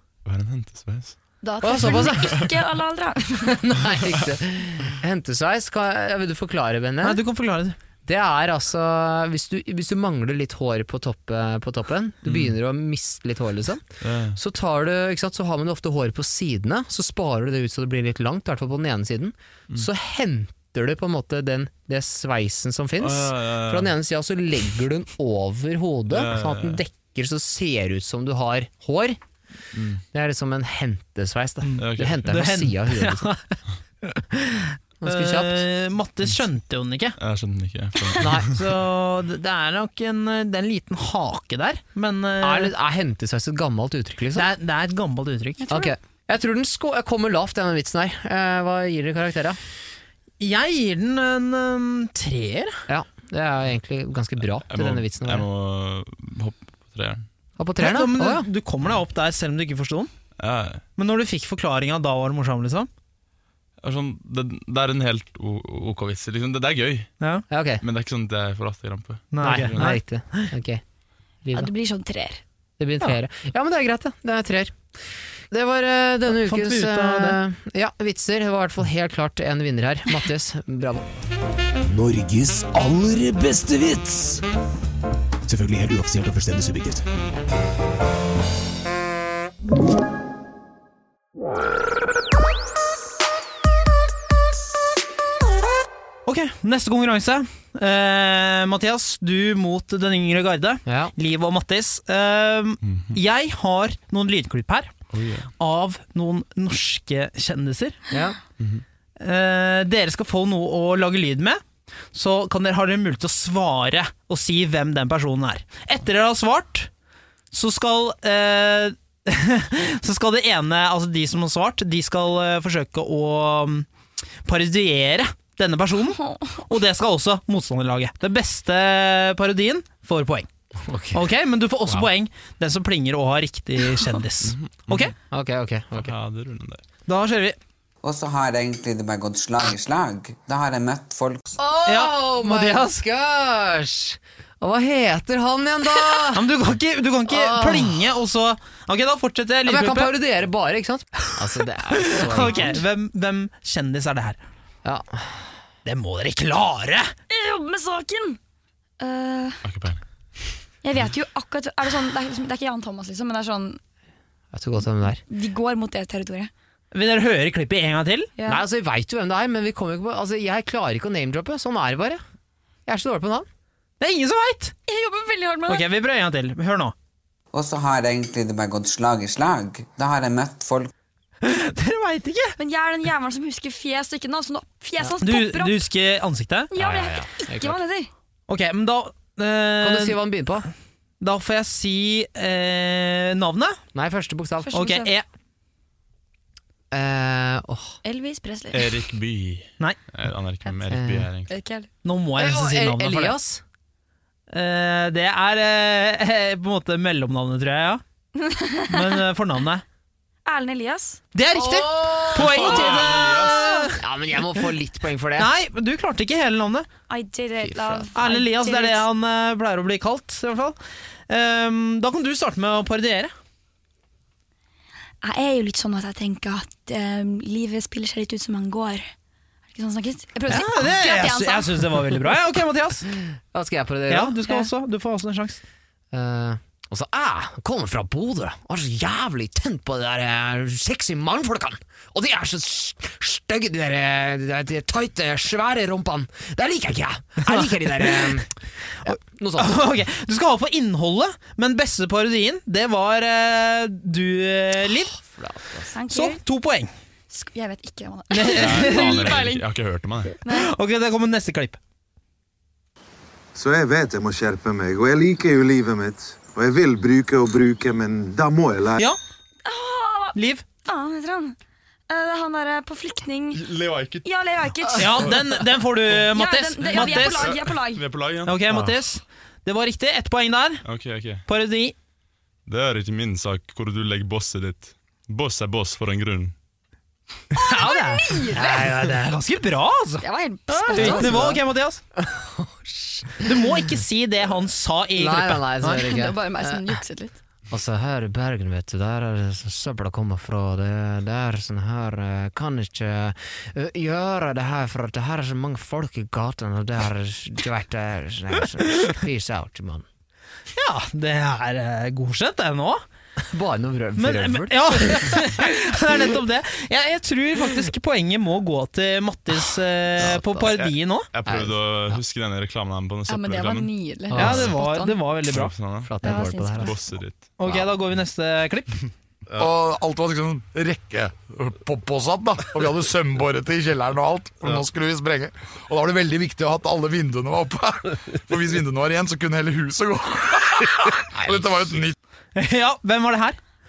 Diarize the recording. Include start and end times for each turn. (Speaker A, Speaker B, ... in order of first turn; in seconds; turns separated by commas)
Speaker A: 0.2-1.2, Speaker B: 1.4-3.6, Speaker C: 1.6-2.4, Speaker A: 1.9-2.5, Speaker C: 3.5-7.2, Speaker D: 7.0-7.8, Speaker C: 8.0-29.2, Speaker A: 12.2-12.5, Speaker A: 14.0-14.4, Speaker A: 23.0-23.9, Speaker A: 26.1-26.8, Speaker A: 29.7-30.0, Speaker C: 30.1-33.3, Speaker D: 31.6-37.2, Speaker A: 31.8-32.3, Speaker C: 35.0-35.6, Speaker A: 37.2-38.5, Speaker C: 38.2-38.5, Speaker D: 38.4-42.7, Speaker C: 42.4-44.5, Speaker D: 44.3-45.7, Speaker B: 45.6-45.9, Speaker C: 45.7-49.6, Speaker D: 50.4-52.8, Speaker C: 52.9-55.5, Speaker A: 54.7-57.2, Speaker C: 57.6-58.5, Speaker D: 57.8-60.1, Speaker A: 60.4-60.8, Speaker D: 61.0-62.9, Speaker A: 63.8-67.1, Speaker C: 67.5-67.8, Speaker A: 67.8-69.9, Speaker D: 69.3-70.5, Speaker C: 69.4-70.8, Speaker C: 71.4-71.7, Speaker B: 71.5-72.4, Speaker C: 72.8-74.8, Speaker C: 75.5-81.1, Speaker D: 76.3-77.4, Speaker E: 81.8-84.4, Speaker E: 85.5-87.0, Speaker D: 96.2-104.9, Speaker C: 100.8-101.1, Speaker A: 102.8-103.2, Speaker A: 105.1-105.5, Speaker D: 105.6-108.0, Speaker C: 108.1-108.4, Speaker D: 109.2-116.9, Speaker D: 117.5-123.9, Speaker D: 124.4-130.5, Speaker C: 130.8-131.3, Speaker D: 131.1-135.1, Speaker A: 134.4-135.1, Speaker C: 135.3-136.1, Speaker A: 135.9-136.8, Speaker D: 137.1-137.6, Speaker F: 138.0-141.6, Speaker C: 141.6-146.5, Speaker D: 141.8-143.0, Speaker D: 146.3-150.1, Speaker C: 147.3-148.0, Speaker C: 149.7-152.8, Speaker D: 151.9-154.4, Speaker C: 154.8-155.4, Speaker D: 155.8-157.1, Speaker B: 157.3-158.4, Speaker B: 159.0-159.6, Speaker A: 159.6-160.0, Speaker B: 160.8-163.8, Speaker C: 164.5-165.2, Speaker B: 165.3-166.5, Speaker D: 166.9-168.3, Speaker B: 168.4-168.6, Speaker C: 168.4-172.2, Speaker C: 172.8-173.5, Speaker D: 174.0-174.7, Speaker B: 174.9-175.8, Speaker D: 175.7-176.9, Speaker F: 177.5-180.9, Speaker D: 181.4-182.5, Speaker B: 182.6-185.8, Speaker D: 185.2-186.7, Speaker B: 186.7-188.1, Speaker C: 186.8-187.8, Speaker D: 188.5-190.2, Speaker C: 189.8-190.7, Speaker D: 191.2-193.8, Speaker C: 193.9-194.7, Speaker B: 194.6-195.2, Speaker D: 194.7-195.2, Speaker C: 196.9-198.0, Speaker B: 198.0-199.0, Speaker A: 198.7-201.5, Speaker C: 200.9-201.3, Speaker B: 201.5-201.9, Speaker D: 202.0-203.4, Speaker C: 202.4-203.6, Speaker D: 204.5-208.0, Speaker B: 208.3-209.2, Speaker D: 208.9-209.8, Speaker B: 210.4-211.2, Speaker D: 211.3-214.0, Speaker C: 211.5-213.2, Speaker A: 212.4-213.7, Speaker B: 213.3-213.8, Speaker C: 213.9-215.5, Speaker D: 215.4-216.9, Speaker B: 217.1-219.0, Speaker C: 217.6-218.1, Speaker D: 218.1-220.8, Speaker D: 221.3-223.3, Speaker B: 225.2-229.1, Speaker B: 229.7-231.9, Speaker D: 230.5-233.1, Speaker C: 233.2-234.4, Speaker D: 234.1-235.6, Speaker B: 234.4-234.7, Speaker C: 236.1-248.5, Speaker C: 249.0-249.9, Speaker D: 249.1-255.2, Speaker C: 255.2-255.9, Speaker B: 255.9-256.4, Speaker D: 256.1-256.9, Speaker B: 257.3-259.6, Speaker D: 258.3-259.4, Speaker A: 258.5-260.4, Speaker B: 260.4-260.7, Speaker D: 260.5-261.8, Speaker G: 263.5-269.0, Speaker B: 269.6-271.6, Speaker D: 270.3-270.6, Speaker B: 272.1-273.7, Speaker A: 273.5-274.3, Speaker B: 274.2-275.4, Speaker D: 275.0-277.5, Speaker B: 276.2-278.0, Speaker A: 276.8-278.9, Speaker D: 278.4-280.8, Speaker A: 280.8-281.4, Speaker D: 281.5-281.9, Speaker A: 282.7-286.5, Speaker D: 287.5-292.0, Speaker B: 287.6-288.9, Speaker B: 290.2-291.5, Speaker C: 290.9-291.6, Speaker C: 292.1-293.5, Speaker D: 293.4-296.0, Speaker C: 295.1-296.9, Speaker B: 295.9-297.4, Speaker C: 297.7-310.1, Speaker D: 310.7-313.0, Speaker C: 313.5-315.5, Speaker D: 314.2-321.3, Speaker C: 320.2-320.7, Speaker A: 320.8-324.7, Speaker C: 321.4-322.2, Speaker B: 323.3-325.2, Speaker C: 324.3-324.7, Speaker D: 324.4-325.7, Speaker A: 325.4-327.5, Speaker C: 326.0-326.9, Speaker B: 326.2-327.0, Speaker D: 327.6-329.1, Speaker H: 329.6-340.7, Speaker G: 330.6-331.2, Speaker G: 336.0-337.0, Speaker H: 341.5-342.1, Speaker D: 342.5-343.6